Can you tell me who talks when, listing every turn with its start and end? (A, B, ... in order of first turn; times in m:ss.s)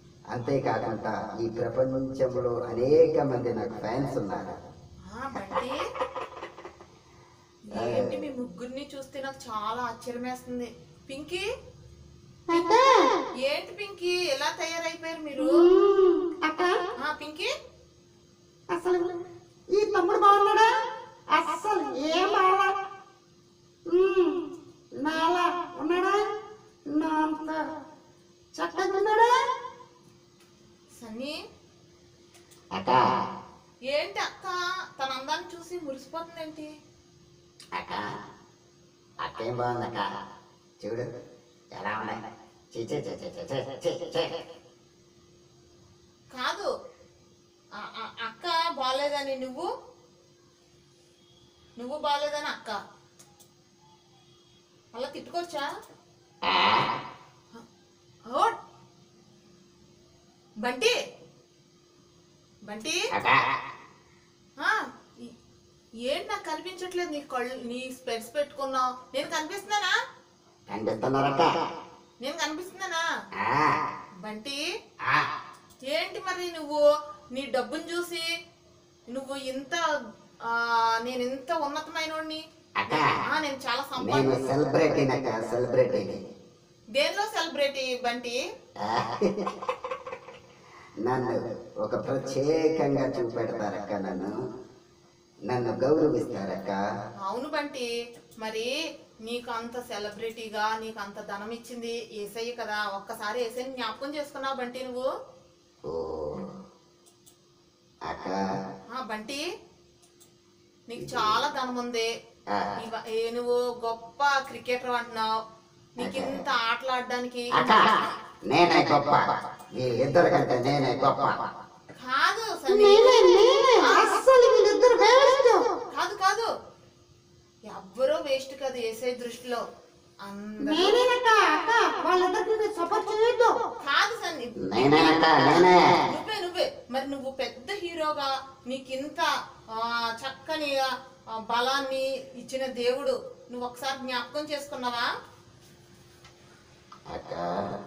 0:00.3-0:04.6 A
0:05.1-0:05.8 B
0:07.7-0:11.4 B
0:07.7-0:08.2 A
0:12.5-0:13.2 C
0:13.4-0:15.5 B
0:15.4-0:16.8 C
0:17.0-0:17.5 B
0:18.7-0:19.2 C
0:19.8-0:20.7 C
0:21.3-0:22.8 C
0:23.9-0:24.5 C
0:25.0-0:26.2 C
0:26.9-0:27.6 C
0:28.6-0:29.3 C
0:31.0-0:31.4 B
0:32.7-0:33.2 A
0:33.9-0:36.7 B
0:37.7-0:38.2 A
0:39.2-0:40.1 A
0:40.8-0:41.1 A
0:41.7-0:44.5 A
0:46.4-0:46.7 B
0:47.8-0:49.7 B
0:51.8-0:52.8 B
0:54.9-0:55.7 B
0:56.4-0:57.0 A
0:58.3-0:58.6 B
1:00.6-1:00.9 B
1:02.7-1:03.0 B
1:03.1-1:03.6 A
1:04.6-1:05.3 B
1:06.1-1:09.9 B
1:10.7-1:11.6 A
1:12.2-1:13.0 B
1:13.4-1:13.9 A
1:14.2-1:14.6 B
1:15.9-1:18.3 B
1:19.1-1:19.8 B
1:20.4-1:24.5 B
1:22.8-1:23.2 A
1:24.0-1:26.2 A
1:27.0-1:28.4 B
1:28.8-1:29.6 A
1:31.1-1:34.4 A
1:35.5-1:36.8 A
1:37.2-1:37.9 B
1:38.4-1:38.7 B
1:39.2-1:45.1 B
1:45.9-1:46.5 A
1:48.1-1:48.4 A
1:49.0-1:49.4 B
1:50.9-1:52.1 B
1:51.0-1:51.4 A
1:52.5-1:52.8 A
1:52.8-1:55.3 B
1:56.0-1:57.6 B
1:56.0-1:56.4 A
1:57.5-2:01.5 A
2:02.0-2:04.2 B
2:02.7-2:05.7 C
2:05.9-2:06.5 B
2:07.7-2:09.6 B
2:10.2-2:10.9 B
2:10.6-2:13.6 C
2:13.8-2:20.8 B
2:14.6-2:16.1 A
2:21.5-2:25.1 B
2:27.1-2:27.8 A